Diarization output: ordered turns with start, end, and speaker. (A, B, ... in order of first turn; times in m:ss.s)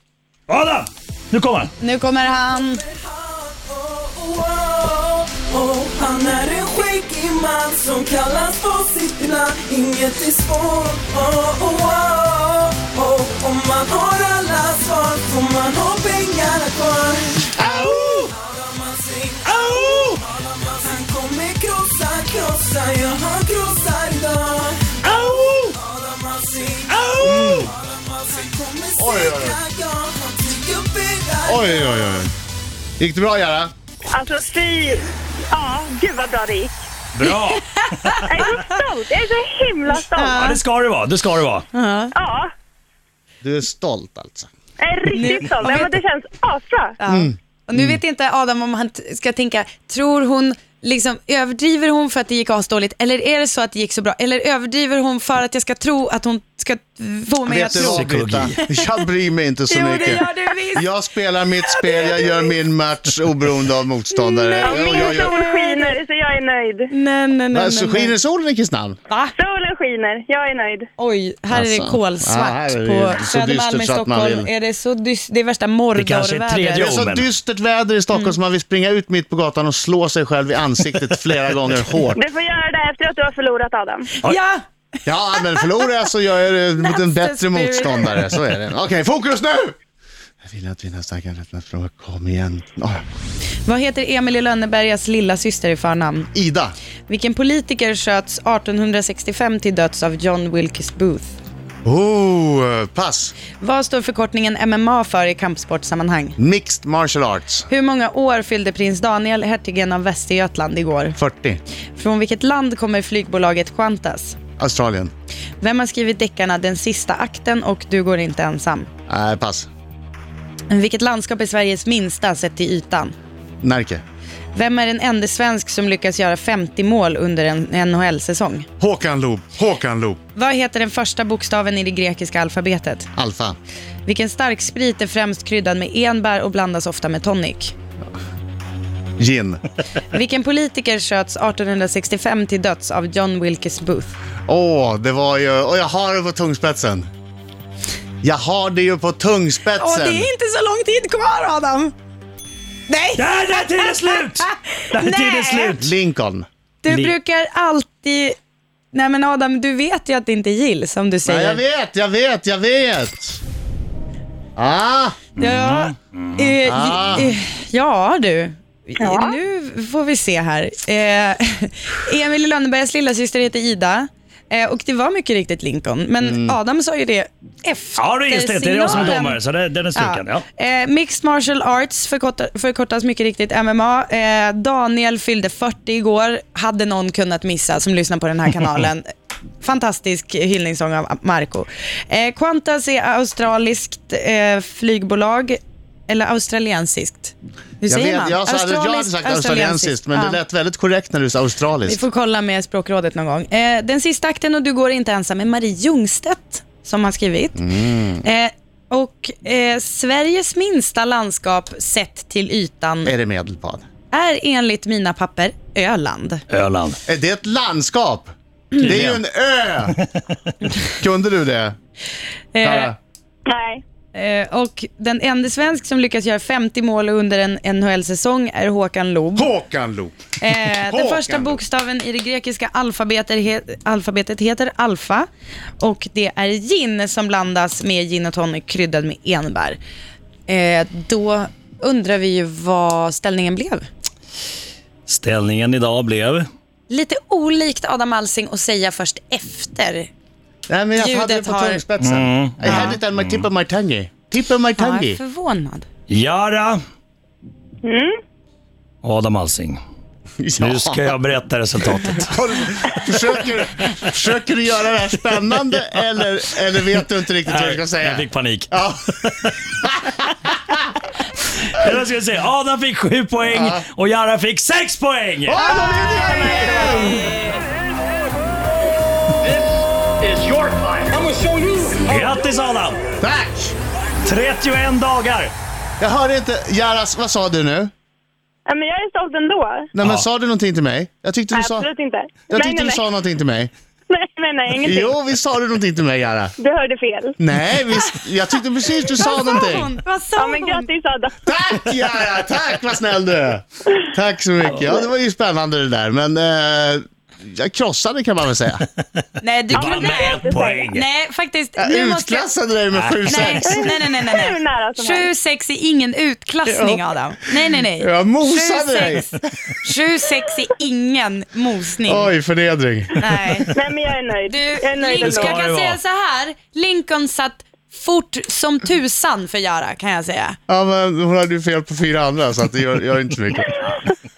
0:00.5-0:01.7 A
0:01.8-0:02.8 B
0:02.8-0:17.6 C
0:17.6-0:18.0 A
0:17.6-0:18.2 D
0:18.2-0:27.0 C
0:19.4-0:20.2 A
0:25.0-0:25.7 A
0:26.9-0:27.7 A
0:27.2-0:27.7 D
0:27.7-0:32.2 C
0:29.0-0:29.6 D
0:31.4-0:32.3 D
0:33.0-0:33.7 D
0:34.1-0:36.7 E
0:37.1-0:38.3 A
0:37.2-0:38.5 B
0:38.2-0:40.4 E
0:40.1-0:40.6 B
0:40.3-0:41.6 A
0:41.7-0:42.1 B
0:42.1-0:42.5 E
0:43.4-0:44.5 D
0:44.8-0:47.0 E
0:45.1-0:46.0 B
0:47.0-0:58.1 B
0:47.1-0:48.0 D
0:57.4-1:05.3 D
0:57.7-0:58.6 A
0:59.7-1:00.9 B
1:01.6-1:02.5 B
1:04.1-1:06.0 B
1:04.6-1:06.9 E
1:06.9-1:08.1 B
1:07.5-1:09.0 D
1:09.1-1:09.3 B
1:09.3-1:10.9 E
1:11.0-1:16.9 B
1:11.5-1:14.5 D
1:15.9-1:17.2 A
1:16.8-1:22.2 D
1:22.1-1:24.1 E
1:24.2-1:24.6 B
1:25.0-1:29.8 D
1:25.3-1:25.8 B
1:26.8-1:28.3 B
1:30.4-1:33.0 D
1:33.6-1:36.3 B
1:36.3-1:36.7 D
1:37.1-1:41.3 B
1:41.8-1:43.3 D
1:43.6-1:46.4 B
1:46.4-1:47.7 D
1:47.7-1:51.2 B
1:51.2-1:51.6 D
1:52.0-1:54.4 B
1:54.6-1:55.1 D
1:55.6-1:58.9 B
1:59.1-1:59.7 D
2:00.7-2:03.1 B
2:03.6-2:04.0 D
2:04.5-2:08.7 B
2:08.8-2:10.2 D
2:10.3-2:13.1 B
2:13.2-2:13.6 D
2:14.0-2:17.7 B
2:19.2-2:19.6 D
2:20.1-2:24.1 B
2:24.5-2:27.1 D
2:28.2-2:30.3 D
2:29.8-2:31.9 B
2:32.9-2:35.8 B
2:33.2-2:35.9 A
2:35.8-2:36.4 D
2:36.8-2:38.4 B
2:36.9-2:37.2 A
2:38.9-2:41.6 B
2:41.2-2:43.4 D
2:44.6-2:45.2 D
2:45.4-2:46.6 A
2:45.4-2:59.4 B
2:46.6-2:47.3 D
2:49.0-2:49.4 E
2:56.2-2:56.6 D
2:58.0-3:00.4 A
2:58.9-2:59.2 D
2:59.9-3:09.1 B
3:09.6-3:20.4 B
3:17.9-3:22.0 D
3:21.8-3:27.7 B
3:27.6-3:28.2 D
3:28.2-3:33.1 B
3:33.0-3:33.8 D
3:34.1-3:36.4 B
3:36.5-3:37.0 A
3:37.1-3:40.0 D
3:38.8-3:39.2 A
3:40.8-3:41.8 D
3:42.5-3:42.9 B
3:42.6-3:43.0 D
3:43.4-3:43.8 E
3:44.1-3:49.5 B
3:49.4-3:51.6 D
3:50.4-3:55.3 B
3:55.8-3:59.8 B
4:00.5-4:03.8 B
4:05.0-4:06.5 A
4:06.9-4:10.1 B
4:10.7-4:15.2 D
4:11.0-4:11.8 B
4:12.0-4:13.4 A
4:12.6-4:13.0 B
4:14.8-4:15.8 B
4:16.1-4:16.8 A
4:17.8-4:18.1 E
4:19.0-4:19.8 A
4:20.4-4:21.0 D
4:20.6-4:22.3 A
4:22.2-4:30.1 D
4:27.5-4:28.7 A
4:31.7-4:35.6 A
4:33.5-4:33.8 D
4:35.5-4:37.3 D
4:35.6-4:37.5 B
4:40.5-4:40.8 A
4:42.0-4:43.0 A
4:43.2-4:43.7 D
4:44.2-4:45.5 A
4:46.0-4:47.9 D
4:48.6-4:49.9 E
4:49.9-4:51.9 D
4:51.5-4:53.0 E
4:52.5-4:53.7 D
4:54.1-4:55.1 E
4:54.8-4:56.5 D
4:56.6-4:57.4 E
4:57.4-4:59.9 D
4:59.2-5:00.9 B
5:00.4-5:01.5 E
5:01.4-5:08.8 D
5:09.4-5:12.5 B
5:09.7-5:11.0 A
5:09.7-5:10.9 E
5:11.8-5:13.9 D
5:12.9-5:13.5 A
5:13.3-5:22.3 B
5:13.7-5:15.3 E
5:16.6-5:17.0 D
5:18.0-5:19.4 D
5:22.0-5:23.2 D
5:23.2-5:23.7 B
5:23.7-5:25.6 E
5:24.5-5:30.6 B
5:25.2-5:26.0 A
5:30.7-5:34.1 D